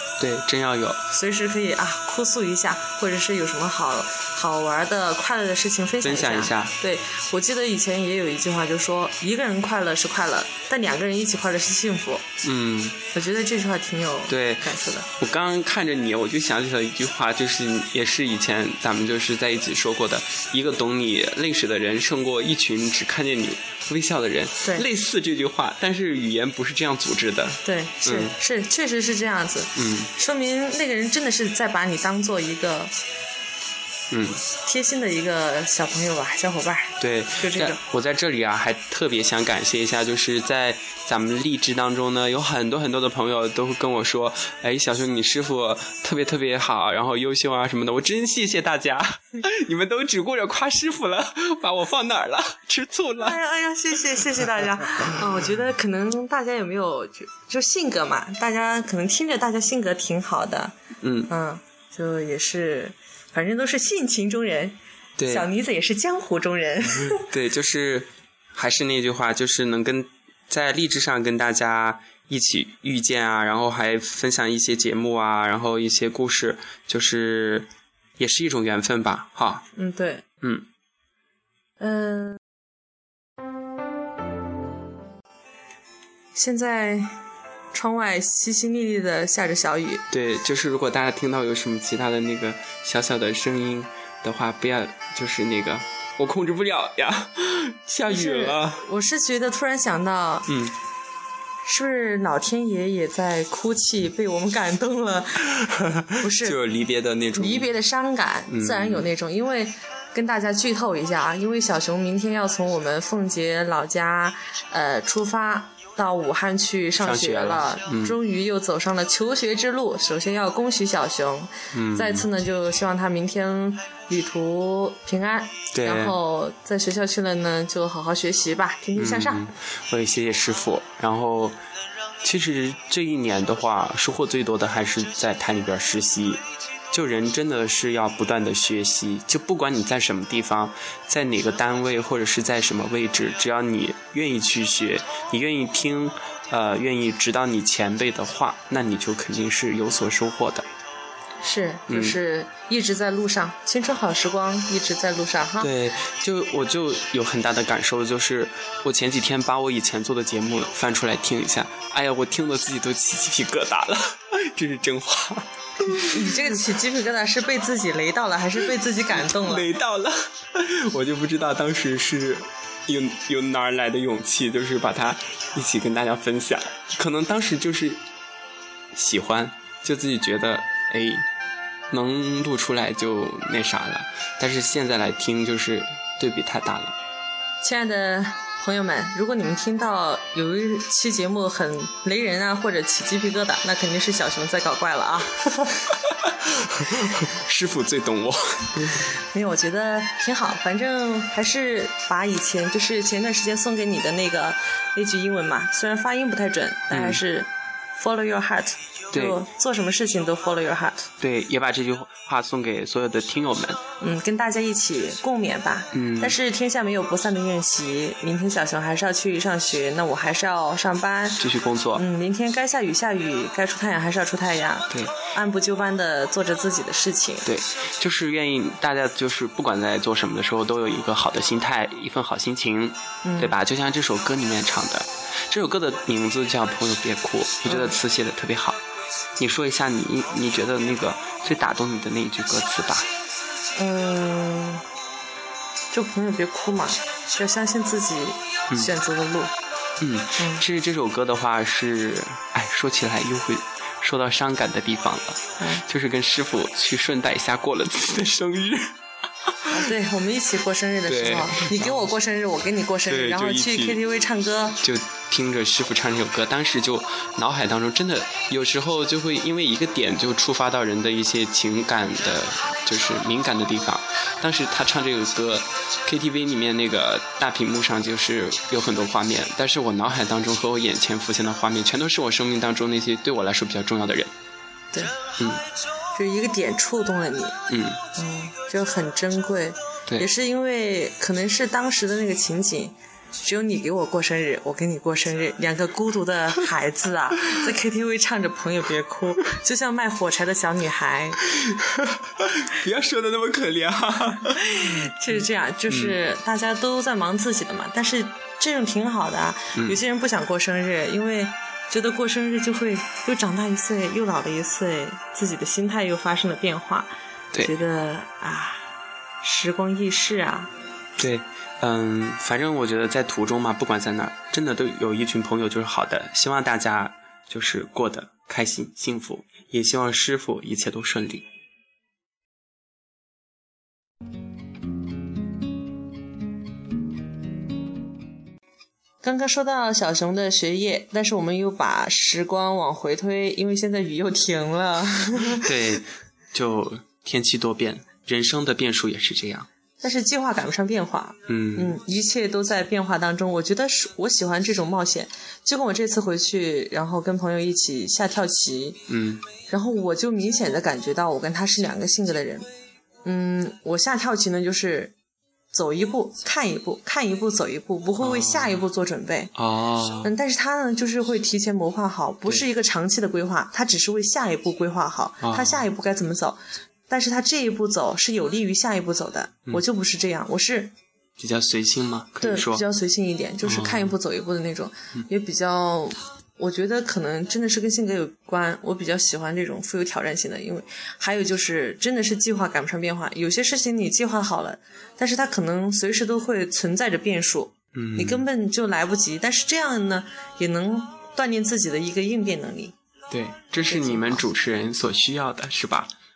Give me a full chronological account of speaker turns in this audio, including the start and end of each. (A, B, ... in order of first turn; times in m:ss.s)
0:00.2-0:01.0 A
0:01.1-0:12.3 B
0:06.0-0:06.7 A
0:12.4-0:13.0 A
0:13.1-0:15.1 B
0:14.3-0:28.4 A
0:27.6-0:32.9 B
0:29.7-0:30.1 A
0:34.1-0:34.4 A
0:34.6-0:37.8 B
0:37.0-0:53.4 A
0:53.2-1:00.7 B
1:01.0-1:01.3 A
1:01.3-1:07.2 B
1:05.2-1:05.5 A
1:07.0-1:19.6 A
1:19.7-1:20.2 B
1:20.4-1:20.7 A
1:21.8-1:22.4 B
1:26.3-1:27.2 B
1:27.7-1:30.0 B
1:30.1-1:38.8 A
1:38.1-1:40.5 B
1:40.5-1:40.8 A
1:41.6-1:45.5 B
1:45.6-1:47.7 A
1:46.2-1:46.6 B
1:47.3-2:09.5 B
1:48.5-1:49.0 A
1:57.0-1:58.2 A
2:01.7-2:02.2 A
2:05.7-2:06.2 A
2:09.0-2:11.6 A
2:12.2-2:30.6 A
2:31.4-2:35.7 B
2:31.9-2:32.2 A
2:35.6-2:46.5 A
2:46.0-2:49.7 B
2:49.1-2:58.0 A
2:58.9-3:01.2 A
3:01.9-3:07.0 A
3:07.6-3:15.9 B
3:16.4-3:19.0 A
3:19.3-3:31.1 B
3:26.9-3:27.2 A
3:29.1-3:29.4 A
3:31.2-3:33.8 A
3:34.0-3:41.4 B
3:35.9-3:36.4 A
3:41.4-3:42.0 A
3:41.9-3:47.5 B
3:44.9-3:45.2 A
3:47.4-3:58.8 A
3:53.2-3:53.5 B
3:57.6-3:58.0 B
3:59.4-4:03.1 A
4:03.8-4:04.8 B
4:05.9-4:09.5 B
4:10.0-4:19.8 A
4:10.4-4:10.6 B
4:19.7-4:24.8 B
4:21.1-4:22.1 A
4:23.1-4:24.0 A
4:24.8-4:44.3 A
4:44.9-4:45.2 B
4:45.4-4:45.6 A
4:46.1-4:47.6 B
4:47.7-4:48.0 A
4:48.2-5:01.4 B
5:01.6-5:05.1 A
5:04.4-5:20.7 B
5:05.9-5:06.2 A
5:21.2-5:31.5 A
5:39.2-5:45.7 B
5:45.5-5:49.7 A
5:50.0-5:59.1 B
5:51.5-5:52.0 A
5:59.1-5:59.4 A
5:59.7-6:02.7 B
6:03.2-6:05.1 B
6:05.7-6:09.5 B
6:08.2-6:08.8 A
6:09.5-6:10.3 A
6:10.2-6:20.9 B
6:15.4-6:15.8 A
6:21.4-6:22.8 A
6:22.4-6:42.9 B
6:23.6-6:24.1 A
6:37.9-6:38.4 A
6:43.3-6:46.1 A
6:43.8-6:44.4 B